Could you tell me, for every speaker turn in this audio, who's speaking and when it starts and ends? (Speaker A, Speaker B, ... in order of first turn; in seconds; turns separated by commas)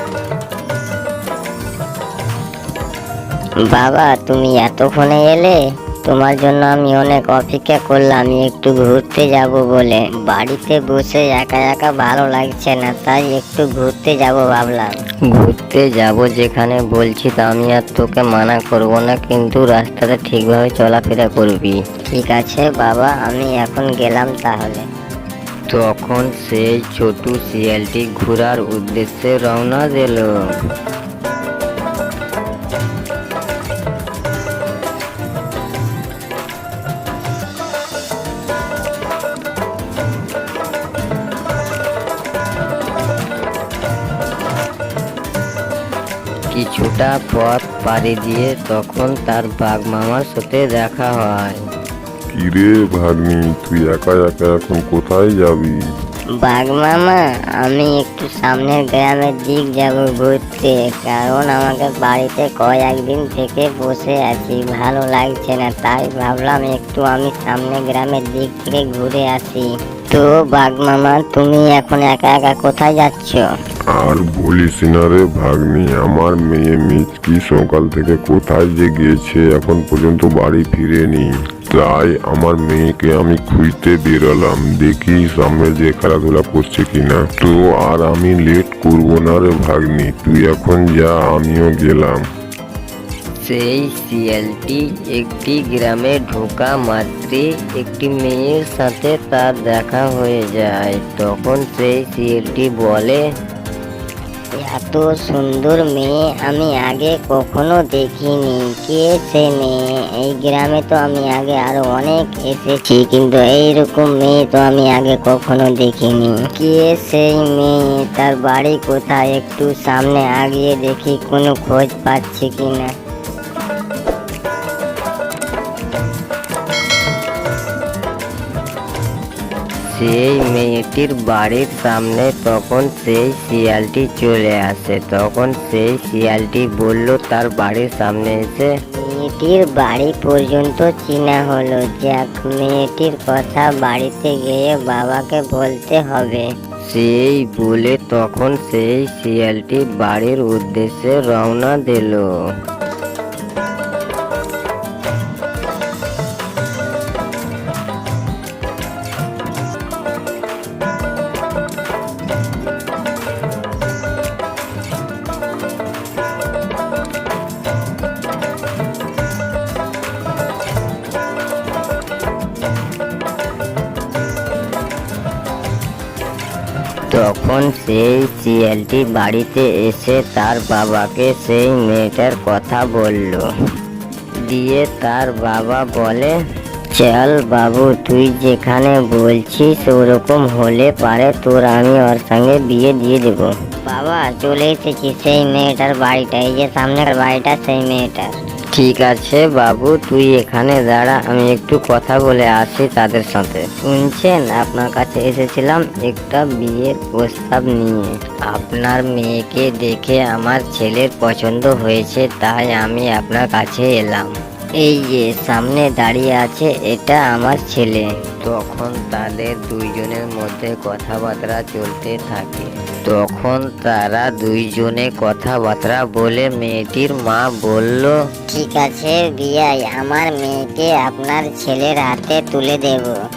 Speaker A: 3.7-15.0, Speaker B: 15.4-21.8, Speaker A: 22.1-24.9, Speaker B: 25.7-30.3, Speaker B: 46.5-51.6, Speaker C: 52.3-55.7, Speaker A: 56.4-73.5, Speaker C: 73.9-92.2, Speaker B: 93.4-103.2, Speaker A: 104.6-122.9, Speaker B: 129.9-138.7, Speaker A: 138.9-146.5, Speaker B: 146.9-152.2, Speaker B: 177.1-183.4, Speaker B: 184.4-186.3, Speaker A: 186.9-198.3, Speaker B: 198.7-214.3, Speaker B: 215.5-216.3, Speaker A: 217.0-217.9, Speaker B: 218.5-228.2, Speaker A: 228.5-233.2